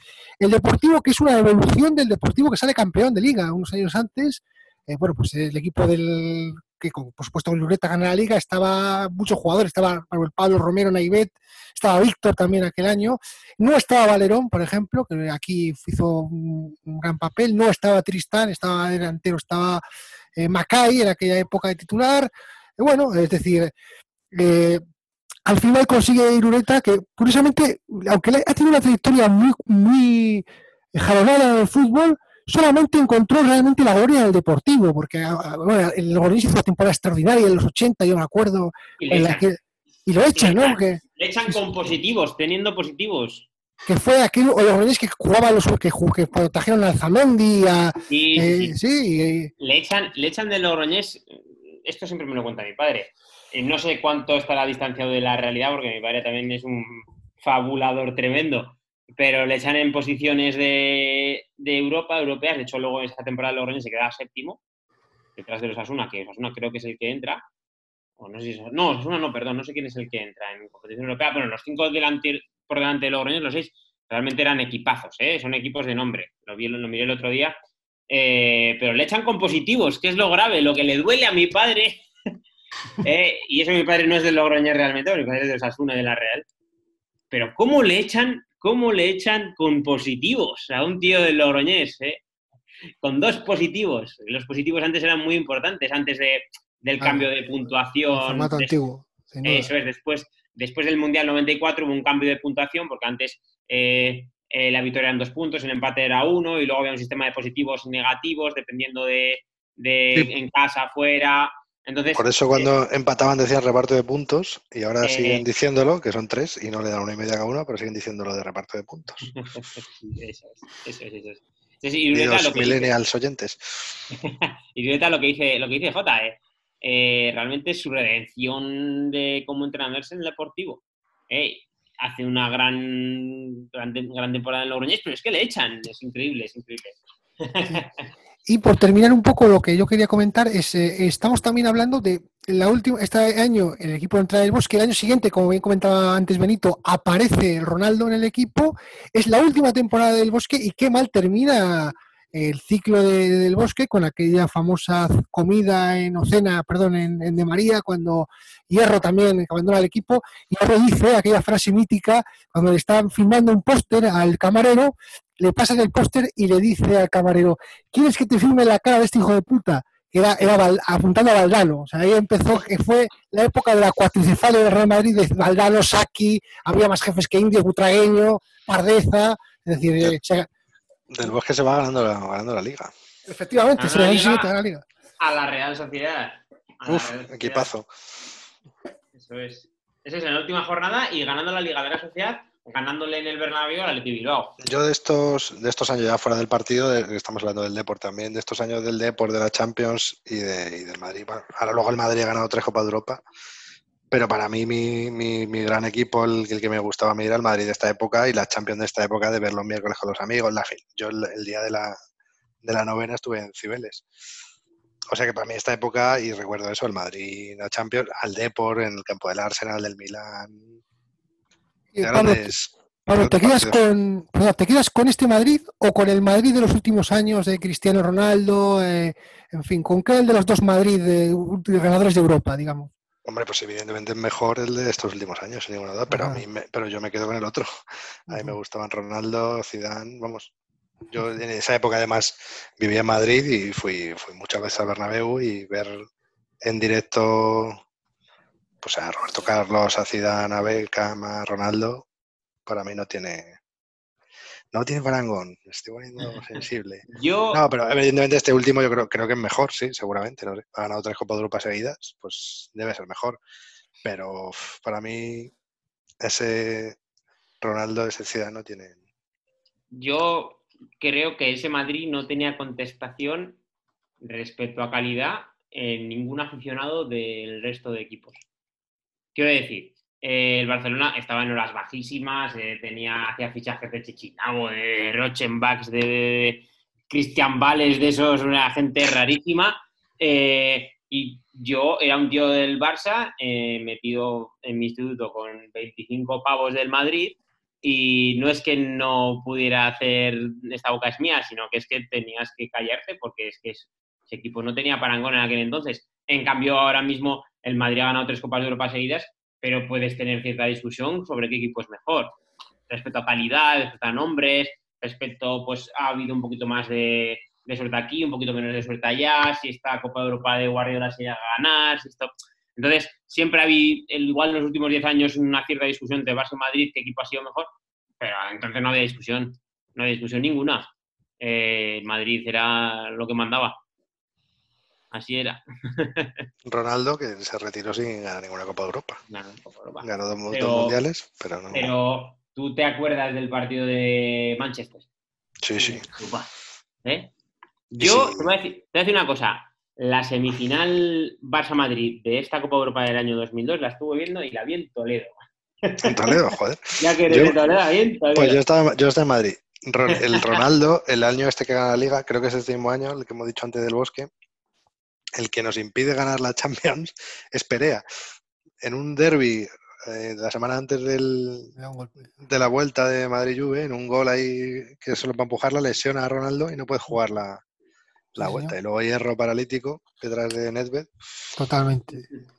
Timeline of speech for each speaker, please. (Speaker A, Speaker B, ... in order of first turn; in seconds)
Speaker A: 0.4-19.8, 20.4-23.7, 24.3-24.8, 25.5-41.6, 43.9-49.5, 97.0-97.3, 98.1-99.7, 138.5-180.5, 183.3-184.8, 221.9-222.5, 223.1-232.9, 236.1-236.4, 238.3-238.6, 371.8-372.3, 378.4-378.8, 381.6-382.3
Speaker B: 39.0-39.5, 40.4-43.5, 48.1-48.8, 49.6-64.6, 65.4-67.5, 68.2-77.6, 78.1-82.1, 83.0-86.5, 87.3-92.2, 93.0-98.8, 99.4-112.7, 115.0-115.4, 119.3-122.9, 124.1-138.0, 183.8-184.5, 185.2-187.7, 189.1-194.6, 257.1-257.6, 269.9-273.6, 274.2-278.4, 279.4-312.4, 312.9-333.8, 335.1-336.5, 339.3-341.0, 341.7-345.1, 345.8-346.5, 347.0-347.3, 347.9-356.4, 357.0-358.6, 360.1-360.6
Speaker C: 112.1-119.3, 122.1-124.0, 181.1-182.9, 186.9-187.9, 194.6-203.2, 204.1-212.0, 212.6-214.1, 215.1-220.8, 222.0-223.8, 233.3-237.7, 238.3-240.5, 241.1-246.1, 246.6-247.8, 248.8-252.1, 252.7-253.6, 254.7-263.4, 264.0-265.5, 266.2-267.0, 267.6-269.0, 336.6-339.2, 340.0-341.9, 345.6-346.1, 348.0-348.5, 356.0-357.6, 358.4-364.3, 365.4-368.0, 368.8-371.7, 372.4-377.6, 378.4-381.1